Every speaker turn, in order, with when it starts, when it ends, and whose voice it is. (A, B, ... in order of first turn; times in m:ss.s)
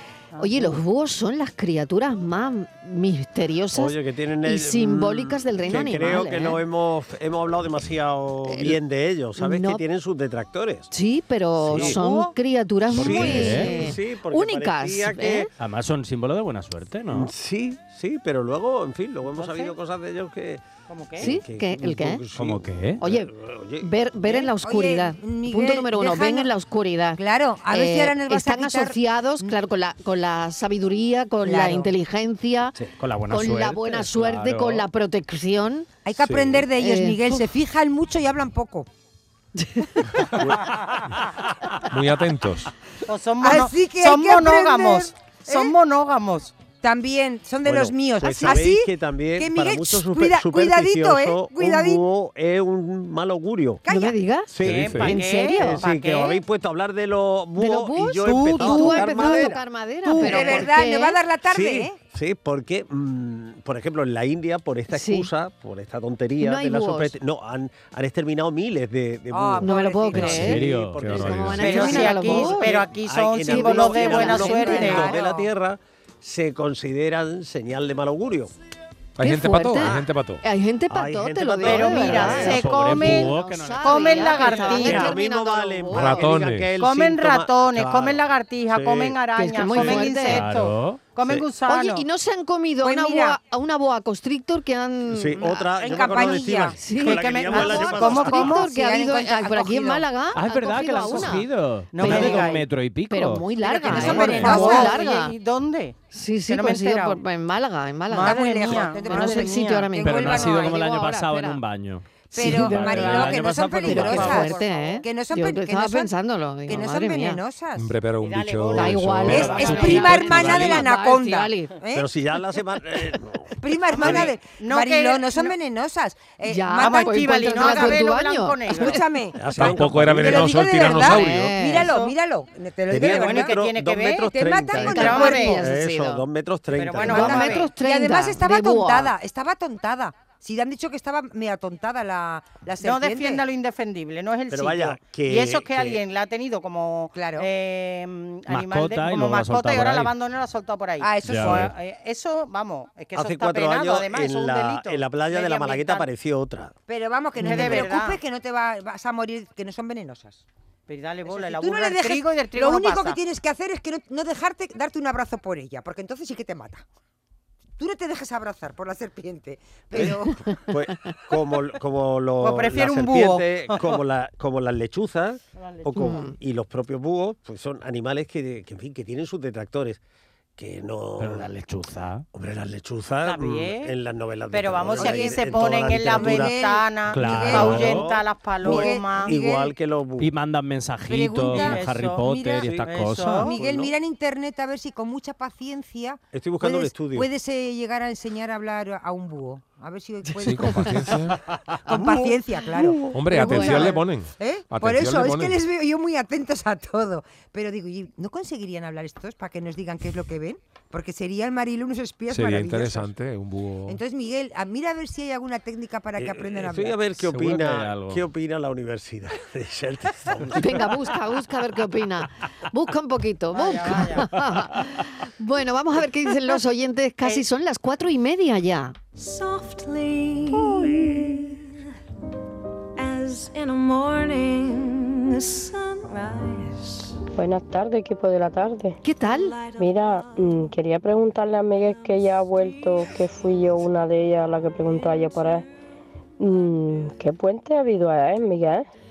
0:00.3-0:00.8 A
0:00.4-0:06.6 B
0:03.7-0:10.9 C
0:08.5-0:08.7 B
0:09.4-0:09.8 B
0:10.9-0:15.5 B
0:11.6-0:12.1 C
0:11.8-0:12.3 A
0:12.9-0:13.8 D
0:12.9-0:15.5 C
0:15.6-0:17.3 D
0:17.1-0:20.6 C
0:19.3-0:19.8 A
0:20.9-0:21.3 A
0:21.2-0:23.9 C
0:21.2-0:22.2 B
0:22.3-0:23.0 D
0:23.0-0:32.8 B
0:24.2-0:26.5 E
0:27.2-0:29.5 E
0:31.4-0:31.9 E
0:32.8-0:34.9 D
0:33.3-0:35.9 B
0:36.0-0:38.9 E
0:36.8-0:37.4 B
0:39.6-0:40.3 B
0:40.4-0:40.6 C
0:41.8-0:42.7 F
0:43.1-0:46.6 A
0:43.4-0:45.8 E
0:46.8-0:52.0 E
0:47.6-0:53.8 C
0:48.2-0:48.6 B
0:53.8-0:54.2 E
0:53.9-0:55.8 B
0:54.5-0:59.6 C
0:54.6-0:55.1 F
0:54.6-0:56.4 A
0:57.6-1:01.2 B
0:58.3-0:59.5 A
1:00.1-1:00.6 A
1:00.2-1:02.0 E
1:00.2-1:00.5 C
1:01.5-1:18.5 C
1:04.9-1:05.3 B
1:06.4-1:07.1 B
1:09.3-1:10.7 E
1:09.6-1:12.8 B
1:10.1-1:11.9 D
1:11.0-1:11.6 F
1:11.6-1:15.2 A
1:13.4-1:15.1 B
1:14.1-1:15.5 E
1:19.2-1:20.4 F
1:19.2-1:26.3 B
1:20.9-1:22.7 C
1:21.6-1:25.2 A
1:22.1-1:24.7 D
1:24.6-1:29.2 C
1:25.9-1:26.7 F
1:26.8-1:32.0 A
1:29.4-1:30.4 B
1:29.7-1:30.0 C
1:29.9-1:31.0 D
1:31.7-1:35.6 B
1:32.8-1:33.4 E
1:35.1-1:38.5 C
1:35.4-1:36.8 E
1:35.9-1:38.7 A
1:36.8-1:41.5 B
1:38.2-1:40.1 E
1:40.4-1:44.5 D
1:41.9-1:42.6 A
1:42.0-1:42.6 B
1:43.1-1:45.3 B
1:43.8-1:46.0 A
1:43.8-1:45.0 E
1:46.1-1:51.6 B
1:46.5-1:47.2 A
1:48.1-1:49.9 A
1:48.2-1:50.9 E
1:50.0-1:54.5 D
1:52.3-1:57.4 B
1:52.3-1:56.1 E
1:54.1-1:55.0 A
1:56.7-1:57.9 E
1:57.8-2:00.5 F
1:58.2-2:00.1 A
1:58.7-2:01.7 B
1:59.3-2:02.1 E
2:00.4-2:00.6 C
2:01.9-2:04.3 C
2:03.6-2:08.1 E
2:03.9-2:05.6 A
2:06.5-2:09.0 B
2:06.8-2:09.0 A
2:08.7-2:13.6 E
2:09.4-2:10.6 C
2:09.6-2:11.6 F
2:10.9-2:11.9 B
2:11.8-2:12.1 A
2:12.9-2:17.5 C
2:13.0-2:15.6 A
2:14.3-2:15.6 E
2:14.8-2:16.2 B
2:16.8-2:17.7 A
2:17.0-2:19.1 B
2:17.0-2:23.4 E
2:22.8-2:36.1 A
2:24.5-2:26.0 C
2:27.1-2:27.5 E
2:28.5-2:30.1 D
2:31.0-2:31.7 E
2:31.2-2:31.7 D
2:33.2-2:36.7 C
2:36.9-2:40.4 E
2:37.4-2:38.2 A
2:37.6-2:37.9 C
2:40.9-2:43.2 A
2:41.3-2:46.8 E
2:47.8-2:50.4 E
2:49.9-3:00.0 C
2:52.4-2:54.0 A
2:55.6-2:56.3 A
2:56.0-2:56.3 B
3:00.6-3:01.5 C
3:01.2-3:02.3 D
3:02.3-3:06.6 C
3:03.2-3:03.9 A
3:04.5-3:09.4 A
3:05.0-3:08.1 E
3:07.1-3:08.1 D
3:07.2-3:10.3 C
3:08.6-3:09.7 E
3:10.2-3:13.5 D
3:11.1-3:12.7 E
3:11.5-3:12.3 A
3:12.8-3:13.5 A
3:13.4-3:21.2 E
3:13.4-3:13.9 C
3:16.3-3:17.3 C
3:20.4-3:21.4 F
3:21.9-3:33.1 E
3:21.9-3:22.4 C
3:23.0-3:23.6 C
3:23.1-3:25.6 F
3:23.3-3:24.0 B
3:32.3-3:34.0 F
3:33.9-3:37.0 E
3:36.2-3:41.1 C
3:37.2-3:38.2 D
3:40.5-3:49.0 B
3:43.5-3:44.3 A
3:49.2-3:51.8 G
3:53.0-3:57.2 G
3:57.3-3:59.0 H
3:59.0-3:59.6 B
3:59.3-4:00.1 G
3:59.8-4:05.7 H
4:06.4-4:08.9 H